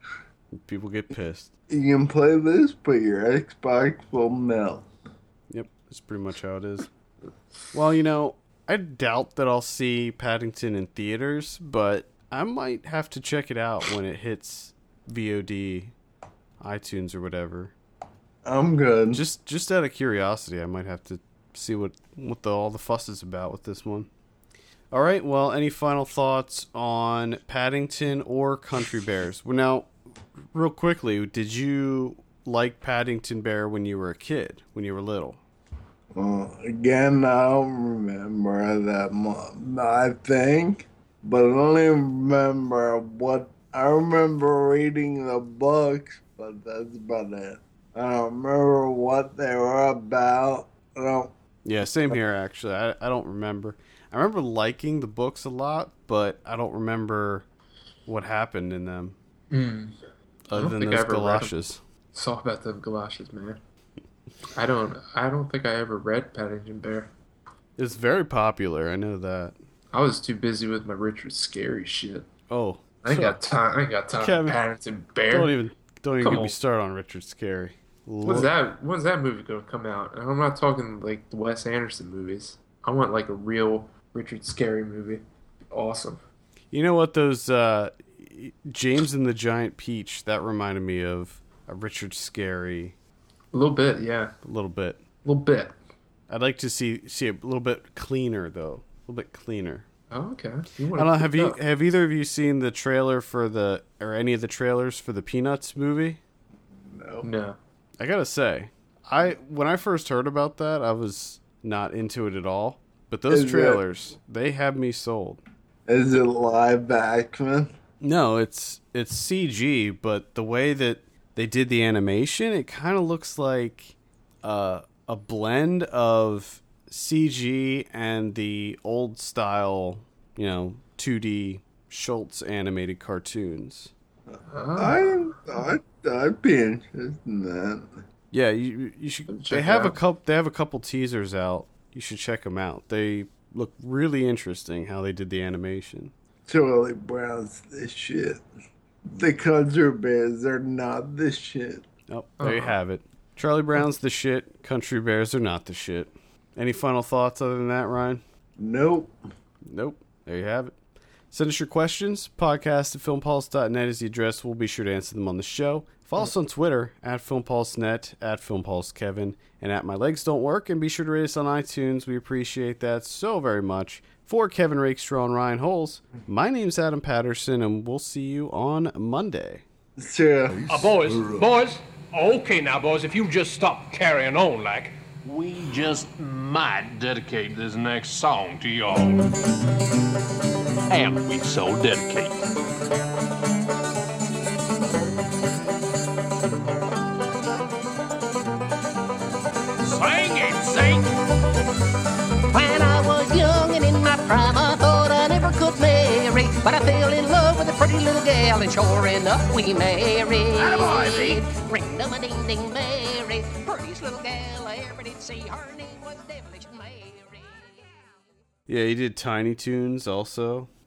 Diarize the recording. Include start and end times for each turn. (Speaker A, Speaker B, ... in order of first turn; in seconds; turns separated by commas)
Speaker A: 0.5-1.5, Speaker B: 1.7-4.9, Speaker A: 5.5-6.9, Speaker A: 7.7-15.9, Speaker A: 16.6-17.7, Speaker B: 18.4-19.2, Speaker A: 19.1-24.1, Speaker A: 24.9-29.9, Speaker A: 30.5-35.4, Speaker B: 36.1-51.3, Speaker A: 51.6-57.4, Speaker A: 58.0-59.1, Speaker C: 59.5-60.0, Speaker A: 60.5-61.8, Speaker C: 60.5-61.5, Speaker C: 62.1-63.6, Speaker C: 64.5-67.1, Speaker A: 67.8-69.5, Speaker C: 69.9-72.3, Speaker A: 72.5-73.4, Speaker C: 73.0-75.5, Speaker A: 74.2-74.6, Speaker A: 75.3-78.5, Speaker C: 76.2-76.6, Speaker C: 78.2-86.2, Speaker A: 86.7-92.9, Speaker C: 93.5-94.3, Speaker A: 94.4-95.0, Speaker C: 95.2-95.8, Speaker A: 96.3-99.8, Speaker C: 100.1-101.6, Speaker A: 101.0-106.2, Speaker B: 106.8-107.3, Speaker C: 107.2-107.5, Speaker A: 108.0-115.4, Speaker B: 113.3-113.8, Speaker B: 115.9-117.7, Speaker A: 118.0-133.9, Speaker B: 134.3-138.0, Speaker C: 134.5-135.2, Speaker A: 138.3-146.1, Speaker C: 139.3-140.0, Speaker B: 146.4-148.4, Speaker B: 149.1-151.8, Speaker A: 152.1-158.2, Speaker C: 152.4-152.7, Speaker B: 158.6-159.1, Speaker A: 159.7-160.7, Speaker A: 161.3-179.6, Speaker B: 180.0-180.9, Speaker D: 180.6-189.3, Speaker D: 190.9-192.4, Speaker D: 199.8-201.1, Speaker E: 202.5-217.9, Speaker D: 210.6-211.4, Speaker A: 218.7-220.7